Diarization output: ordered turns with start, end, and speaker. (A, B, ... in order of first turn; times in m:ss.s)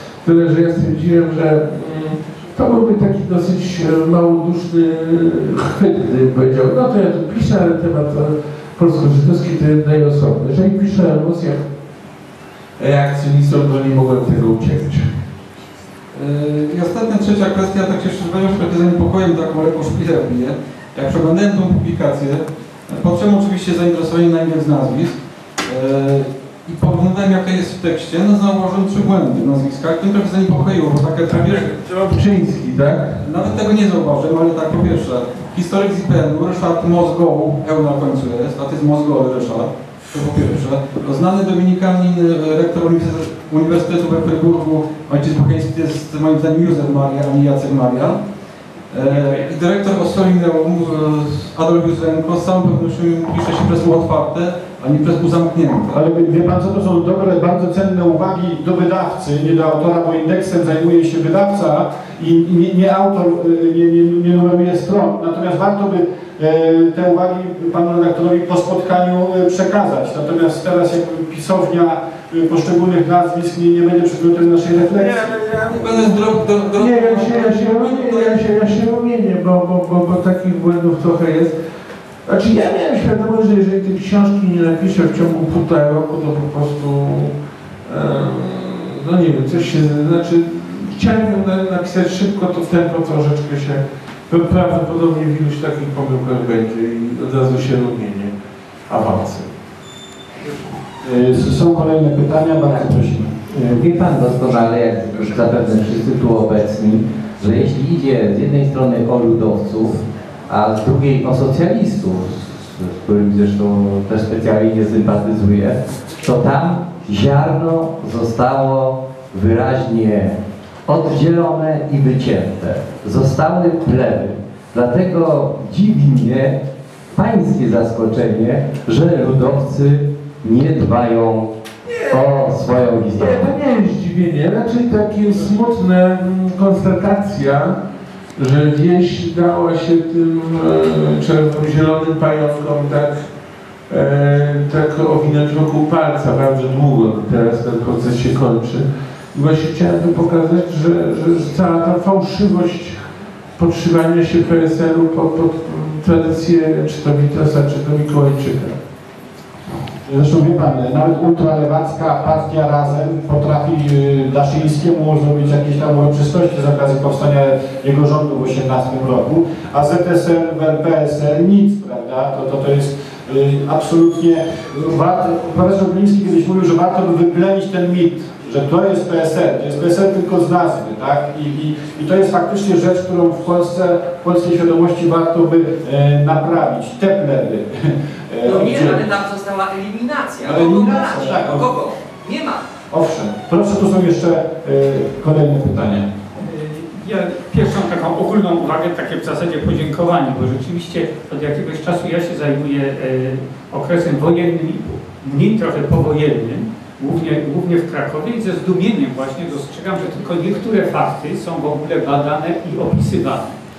0:00.2-0:11.7 A
0:12.8-0:15.2 A
0:16.1-0:31.8 B
0:31.3-0:33.2 A
0:33.2-0:48.3 B
0:48.8-0:56.0 B
0:55.9-1:15.3 C
1:14.9-1:21.6 A
1:15.7-1:18.4 B
1:22.2-1:38.3 A
1:38.9-1:39.5 A
1:41.0-1:43.4 C
1:43.5-2:06.6 D
2:07.1-2:11.5 D
2:11.8-2:12.5 A
2:12.1-2:13.5 D
2:13.1-2:17.8 A
2:18.4-2:23.3 A
2:23.9-2:33.0 A
2:33.6-2:38.8 A
2:40.1-3:09.1 C
3:08.4-3:12.6 E
3:10.4-3:11.7 C
3:12.9-3:16.1 C
3:16.4-3:33.6 F